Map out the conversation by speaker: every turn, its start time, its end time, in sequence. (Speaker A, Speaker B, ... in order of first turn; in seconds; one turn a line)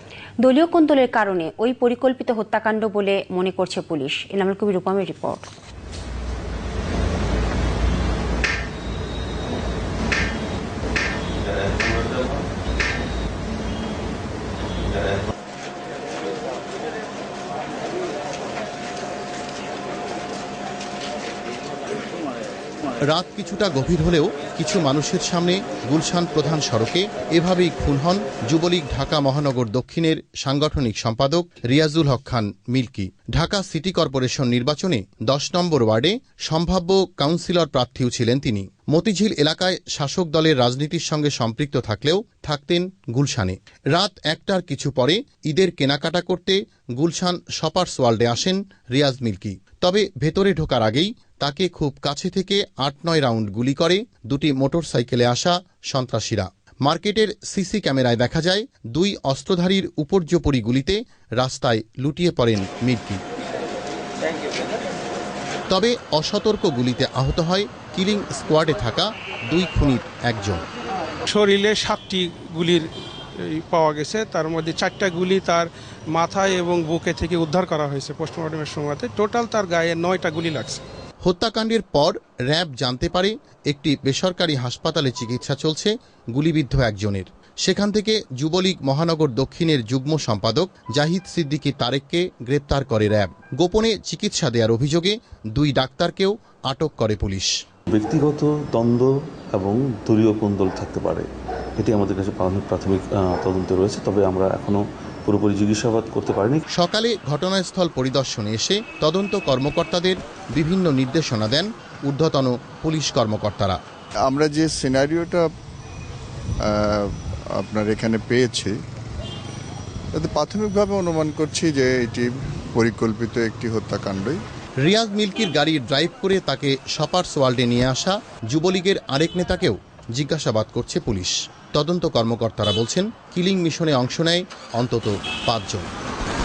Speaker A: 0.4-5.4
Speaker B: 23.1-63.2
Speaker B: 65.7-70.6
Speaker C: 71.3-80.8
Speaker B: 81.2-97.5
Speaker D: 97.9-106.6
Speaker B: 106.7-113.8
Speaker E: 114.3-115.5
Speaker E: 116.6-118.8
Speaker E: 120.1-124.4
Speaker B: 124.8-135.9